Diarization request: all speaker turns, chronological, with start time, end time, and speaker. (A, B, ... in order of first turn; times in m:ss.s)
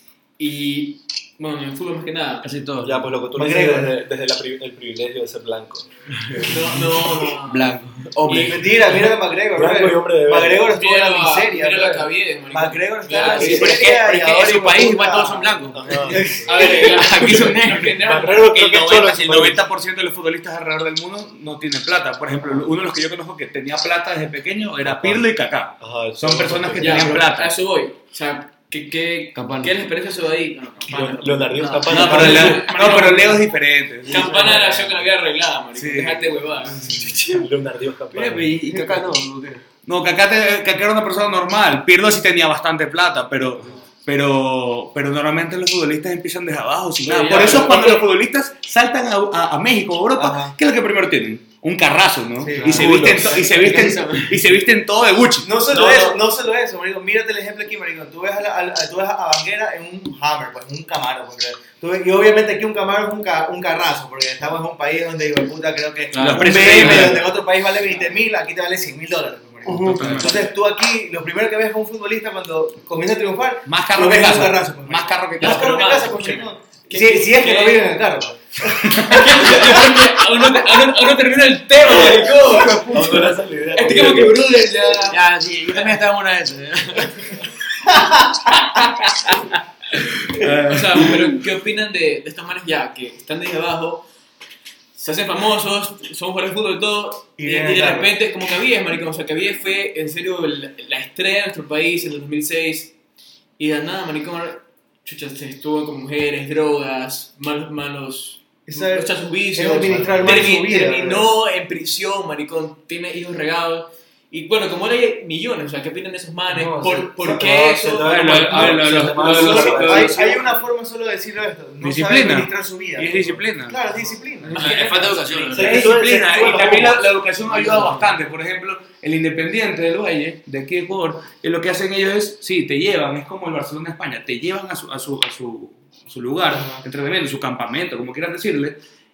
0:00.4-0:02.5 A
0:02.4-0:03.0 B
0:02.8-0:06.8 C
0:03.4-0:03.9 D
0:06.4-0:07.8 A
0:07.4-0:09.0 B
0:08.3-0:16.7 D
0:09.5-0:10.7 C
0:10.7-0:13.9 A
0:13.1-0:17.9 B
0:13.3-0:14.4 E
0:15.7-0:16.5 C
0:16.2-0:18.6 A
0:17.2-0:17.6 E
0:18.0-0:19.6 C
0:18.2-0:27.5 E
0:22.4-0:22.7 C
0:24.8-0:25.2 C
0:25.8-0:27.2 C
0:26.8-0:33.5 A
0:29.4-0:29.7 E
0:30.9-0:32.6 C
0:31.9-0:34.4 E
0:34.1-0:36.9 A
0:35.8-0:36.3 E
0:36.8-0:37.5 B
0:36.8-0:38.5 C
0:38.1-0:39.6 B
0:38.7-0:39.0 D
0:39.8-0:55.5 E
0:47.0-0:48.0 A
0:47.3-0:47.8 D
0:50.2-0:50.6 D
0:52.4-0:52.9 D
0:52.6-0:53.2 C
0:52.6-0:54.4 B
0:55.4-1:20.0 D
0:55.8-0:56.1 B
1:06.1-1:07.2 B
1:06.1-1:07.3 E
1:09.7-1:10.4 E
1:10.0-1:10.3 B
1:13.6-1:15.8 E
1:15.4-1:17.9 A
1:18.8-1:19.2 E
1:19.0-1:25.2 A
1:22.3-1:24.4 C
1:25.1-1:27.4 B
1:30.4-1:31.2 E
1:30.4-1:34.1 A
1:35.0-1:42.9 A
1:37.4-1:38.1 D
1:43.6-1:59.3 A
1:48.7-1:51.3 D
1:56.5-2:00.2 C
1:58.0-2:00.4 E
1:59.2-2:05.2 D
2:01.8-2:03.8 E
2:04.5-2:05.2 A
2:04.5-2:05.9 B
2:05.5-2:07.1 C
2:05.6-2:18.8 E
2:07.6-2:08.0 B
2:16.5-2:16.8 D